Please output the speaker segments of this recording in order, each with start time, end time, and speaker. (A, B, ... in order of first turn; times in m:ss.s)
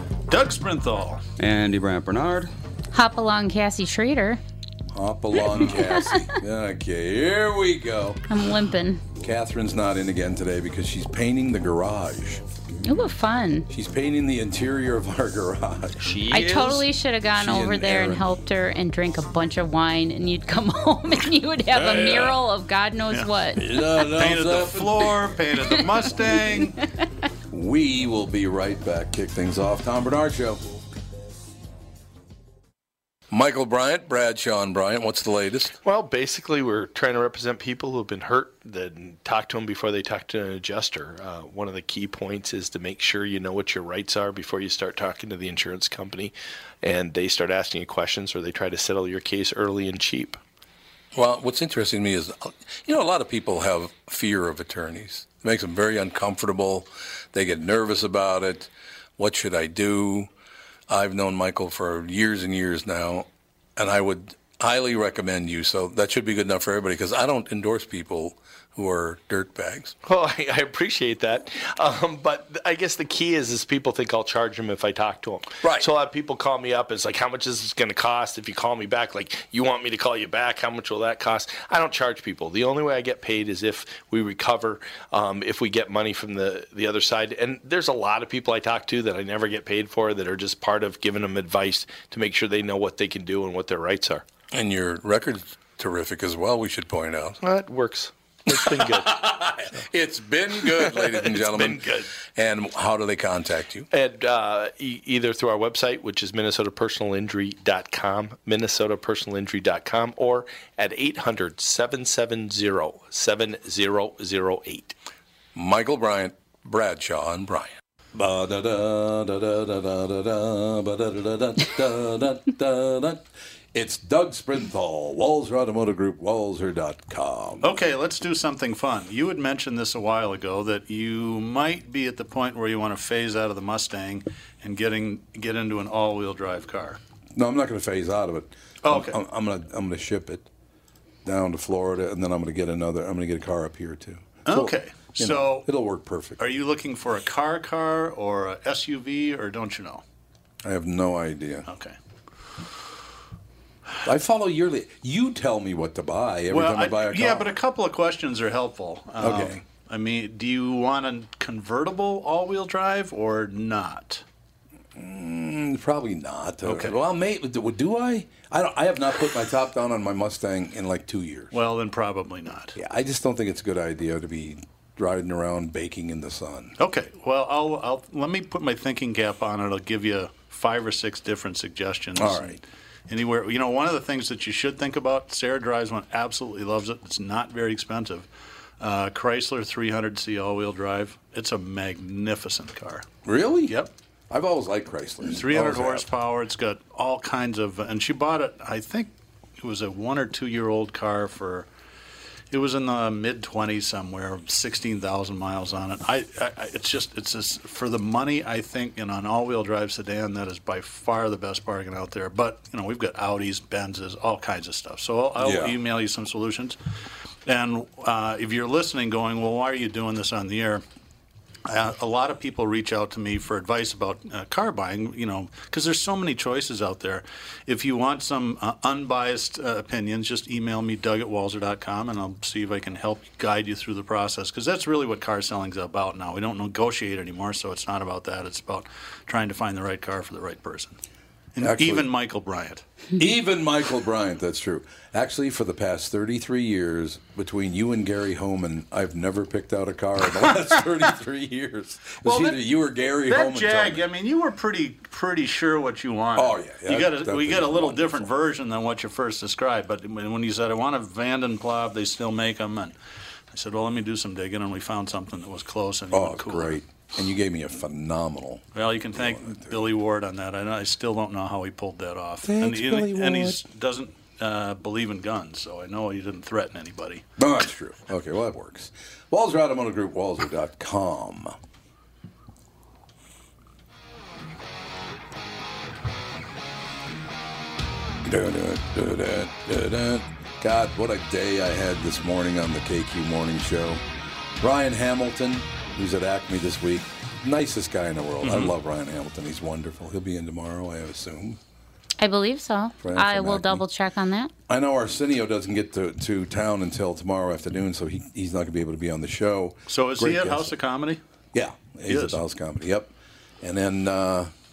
0:00.3-0:01.2 A
0:01.4-0:02.5 B
0:02.9-0:04.4 C
0:04.9-0:08.2 D
0:05.7-0:06.3 C
0:08.3-0:09.0 C
0:09.2-0:12.4 D
0:12.8-0:13.7 C
0:13.7-0:16.8 D
0:16.0-0:16.8 B
0:16.3-0:23.8 C
0:17.3-0:18.3 D
0:21.7-0:22.3 D
0:23.6-0:25.1 D
0:24.0-0:26.8 A
0:27.5-0:30.6 D
0:33.3-0:35.8 D
0:35.8-0:50.4 E
0:51.1-1:00.3 D
1:00.9-1:10.0 D
1:10.0-1:34.2 E
1:15.6-1:15.9 D
1:34.5-1:37.4 D
1:37.4-1:39.2 E
1:38.5-1:41.8 D
1:40.6-1:42.1 E
1:42.3-1:43.9 D
1:43.9-1:54.9 E
1:55.6-2:07.7 D
2:07.6-2:17.0 A
2:17.3-2:20.5 D
2:18.8-2:19.2 A
2:21.2-2:26.4 D
2:24.4-2:25.7 A
2:26.4-2:30.0 A
2:30.6-2:31.7 D
2:31.7-2:32.0 A
2:34.0-2:37.5 D
2:36.5-2:44.2 A
2:39.2-2:39.6 D
2:45.0-2:51.5 D
2:46.6-2:47.0 A
2:51.5-2:52.8 A
2:52.8-2:56.8 D
2:56.8-3:08.3 A
3:02.2-3:02.6 D
3:08.8-3:13.1 A
3:13.2-3:13.8 D
3:13.7-3:13.9 A
3:14.3-3:16.1 D
3:15.3-3:21.7 A
3:22.5-3:36.8 A
3:35.4-3:35.8 D
3:37.5-3:40.8 A
3:41.7-4:01.0 A
4:01.6-4:02.8 A
4:01.6-4:02.1 D
4:03.2-4:14.1 D
4:12.2-4:12.6 A
4:13.2-4:22.9 A
4:16.4-4:18.3 D
4:23.5-4:26.8 A
4:26.1-4:29.8 D
4:28.8-4:37.2 A
4:32.4-4:33.6 D
4:37.4-4:41.6 D
4:48.2-4:54.0 D
4:54.6-5:01.6 D
4:58.4-4:58.7 A
5:02.2-5:04.5 C
5:03.0-5:03.8 D
5:04.7-5:10.8 D
5:09.9-5:11.2 A
5:11.5-5:14.5 D
5:12.1-5:12.4 A